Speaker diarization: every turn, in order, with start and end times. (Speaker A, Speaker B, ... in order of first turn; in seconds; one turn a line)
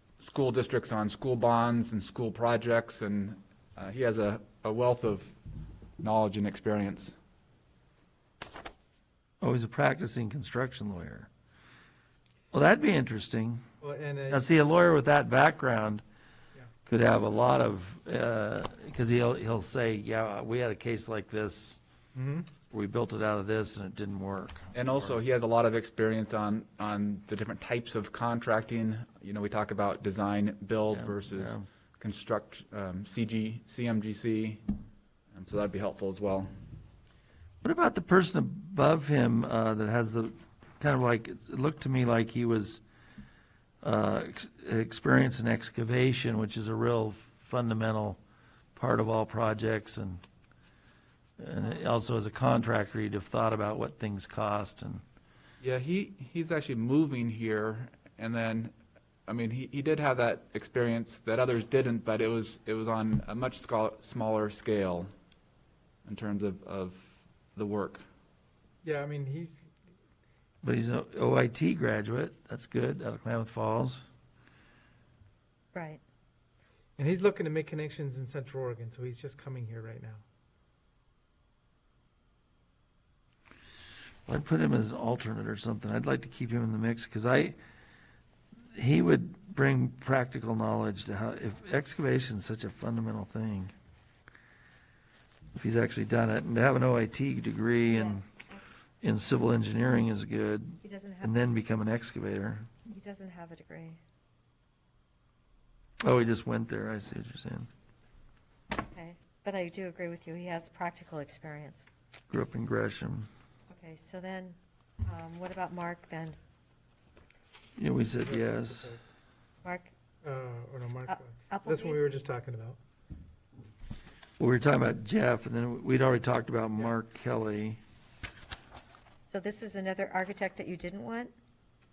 Speaker A: 0.2-5.3
Speaker A: 6.0-7.2
Speaker B: 9.4-11.3
Speaker B: 12.5-13.6
Speaker C: 13.8-14.4
Speaker B: 14.3-16.0
Speaker B: 16.9-21.8
Speaker C: 22.1-22.5
Speaker B: 22.7-25.1
Speaker A: 24.7-34.6
Speaker B: 30.9-31.6
Speaker A: 35.3-36.5
Speaker B: 37.6-42.8
Speaker B: 43.8-48.2
Speaker B: 48.7-50.2
Speaker B: 51.4-55.0
Speaker A: 55.6-58.7
Speaker A: 59.3-65.1
Speaker A: 66.0-68.0
Speaker C: 68.8-69.7
Speaker B: 70.6-74.0
Speaker D: 75.7-76.0
Speaker C: 77.0-80.2
Speaker B: 84.3-87.6
Speaker B: 88.7-93.7
Speaker B: 95.5-98.2
Speaker D: 97.9-98.7
Speaker B: 99.0-102.7
Speaker D: 100.8-101.4
Speaker D: 102.8-104.0
Speaker B: 106.0-107.7
Speaker D: 108.8-111.8
Speaker B: 112.3-113.3
Speaker D: 113.7-116.4
Speaker B: 117.8-118.9
Speaker C: 118.2-119.0
Speaker D: 119.6-119.9
Speaker C: 120.2-122.8
Speaker D: 121.1-122.0
Speaker B: 124.4-127.8
Speaker D: 129.3-131.3